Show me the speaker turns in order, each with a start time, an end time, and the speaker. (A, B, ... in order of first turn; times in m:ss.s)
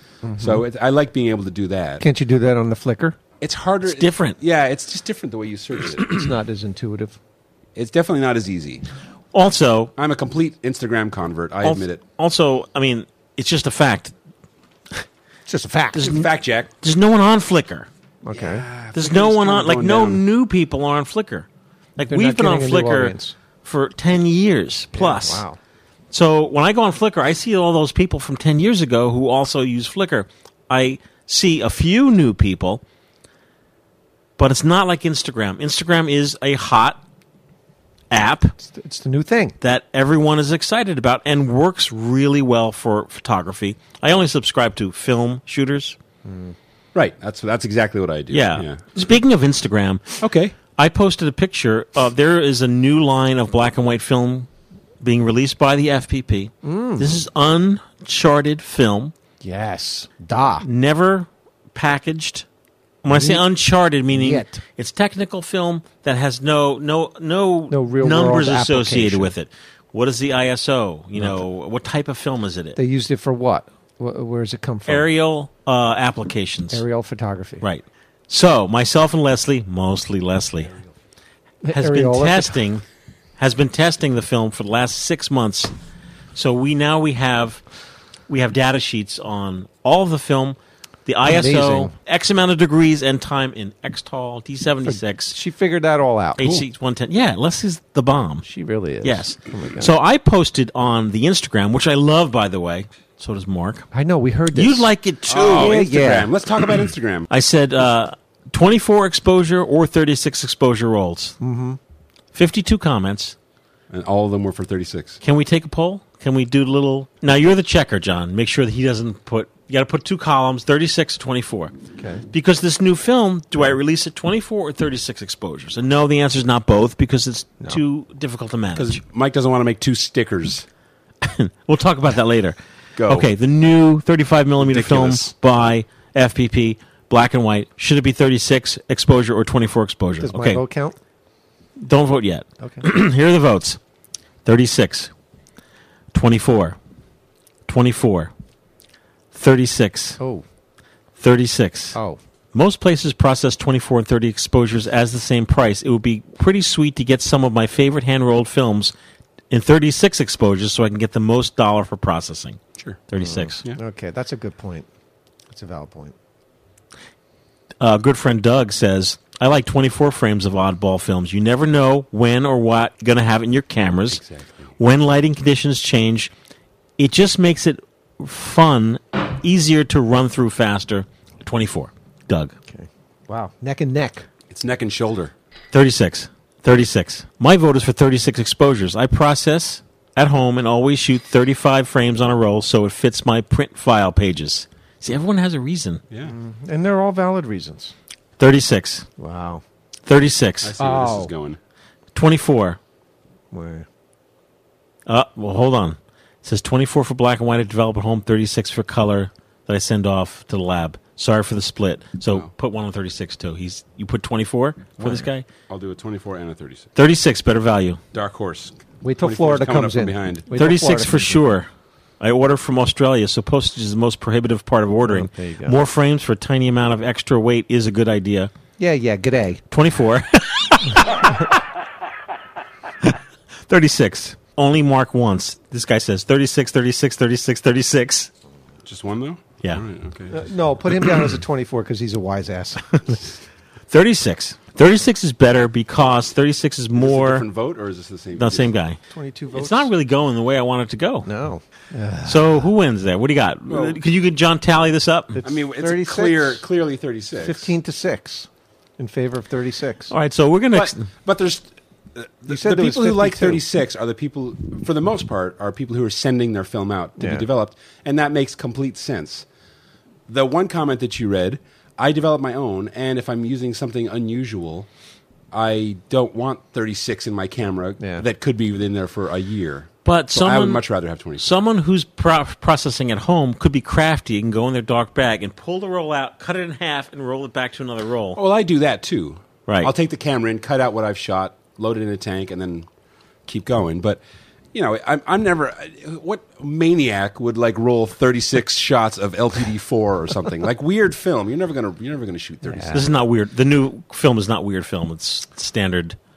0:00.2-0:00.6 A
0:00.4-0:02.0 B
0:02.0-0:03.2 A
0:03.4-0:06.3 B
0:03.8-0:04.4 C
0:06.0-0:07.2 A
0:07.8-0:08.8 B
0:09.3-0:09.9 C
0:10.0-0:12.0 B
0:11.6-0:14.1 C
0:15.5-0:16.2 A
0:16.0-0:16.3 C
0:16.0-0:16.7 B
0:16.8-0:17.9 C
0:18.2-0:18.7 A
0:18.3-0:20.2 B
0:19.0-0:25.4 C
0:22.1-0:23.4 A
0:25.0-0:25.6 A
0:26.1-0:32.8 C
0:34.4-0:37.0 C
0:38.1-0:38.6 C
0:38.6-0:39.6 A
0:39.6-0:46.0 C
0:46.2-0:46.6 A
0:47.0-0:48.8 B
0:48.3-0:50.2 C
0:50.2-0:50.6 B
0:50.8-0:54.5 C
0:55.0-0:59.1 C
0:56.6-0:57.2 A
0:59.4-1:00.7 A
1:00.6-1:02.4 C
1:03.0-1:12.8 C
1:03.1-1:03.4 A
1:04.1-1:04.6 A
1:07.7-1:09.3 A
1:11.2-1:11.4 A
1:12.8-1:15.1 A
1:14.9-1:16.8 C
1:16.7-1:17.6 A
1:17.6-1:20.7 C
1:21.6-1:22.6 A
1:21.7-1:22.8 C
1:23.4-1:25.7 C
1:26.4-1:27.6 C
1:28.3-1:35.4 C
1:31.2-1:31.9 A
1:34.8-1:36.6 A
1:36.4-1:38.5 C
1:38.4-1:39.9 A
1:39.0-1:43.9 C
1:43.9-1:46.3 A
1:44.5-1:45.8 C
1:45.3-1:47.3 B
1:47.3-1:51.4 C
1:51.4-1:51.8 A
1:52.3-1:53.4 C
1:53.9-1:55.2 B
1:55.2-2:01.7 C
2:02.0-2:02.2 A
2:02.3-2:09.0 C
2:08.8-2:10.7 B
2:11.2-2:12.6 C
2:13.0-2:13.3 B
2:13.1-2:20.6 C
2:14.6-2:15.4 B
2:20.2-2:21.0 A
2:21.8-2:23.8 C
2:22.6-2:22.9 A
2:24.4-2:25.1 C
2:26.1-2:26.8 C
2:27.7-2:28.3 C
2:29.3-2:30.2 C
2:30.2-2:30.4 A
2:31.2-2:32.0 C
2:31.9-2:32.2 A
2:32.5-2:38.9 C
2:39.5-2:43.6 C
2:43.2-2:44.9 A
2:45.5-2:46.2 A
2:47.8-2:54.2 C
2:54.1-2:54.7 B
2:54.8-2:56.3 C
2:57.0-3:02.6 C
3:02.7-3:04.3 A
3:04.5-3:05.3 B
3:05.7-3:16.0 C
3:16.2-3:18.0 A
3:18.4-3:19.1 C
3:19.2-3:19.6 A
3:20.1-3:20.7 C
3:20.6-3:21.6 B
3:20.8-3:21.3 A
3:22.1-3:22.8 C
3:23.5-3:23.9 A
3:25.1-3:35.5 C
3:35.0-3:35.2 A
3:35.7-3:36.9 B
3:37.0-3:38.0 C
3:38.1-3:40.5 B
3:39.0-3:41.4 A
3:40.5-3:41.7 C
3:42.2-3:48.5 C
3:45.0-3:45.8 A
3:48.8-3:49.6 A
3:49.7-3:51.4 C
3:53.7-3:58.3 C
3:58.9-4:00.4 B
4:00.3-4:03.2 A
4:03.9-4:07.4 C
4:07.0-4:08.7 B
4:08.4-4:09.0 C
4:09.1-4:09.9 A
4:09.5-4:11.3 C
4:11.2-4:12.6 A
4:12.2-4:15.4 C
4:13.7-4:14.0 B
4:15.4-4:16.6 A
4:15.4-4:17.7 B
4:17.4-4:20.1 A
4:20.1-4:21.0 C
4:20.7-4:29.5 B
4:22.5-4:23.6 A
4:27.2-4:27.5 A
4:30.3-4:34.9 B
4:35.5-4:41.5 B
4:40.0-4:40.8 C
4:41.4-4:48.4 C
4:48.4-4:52.9 B
4:53.5-4:54.2 B
4:54.7-5:03.0 B
5:02.6-5:03.1 A
5:02.9-5:06.2 C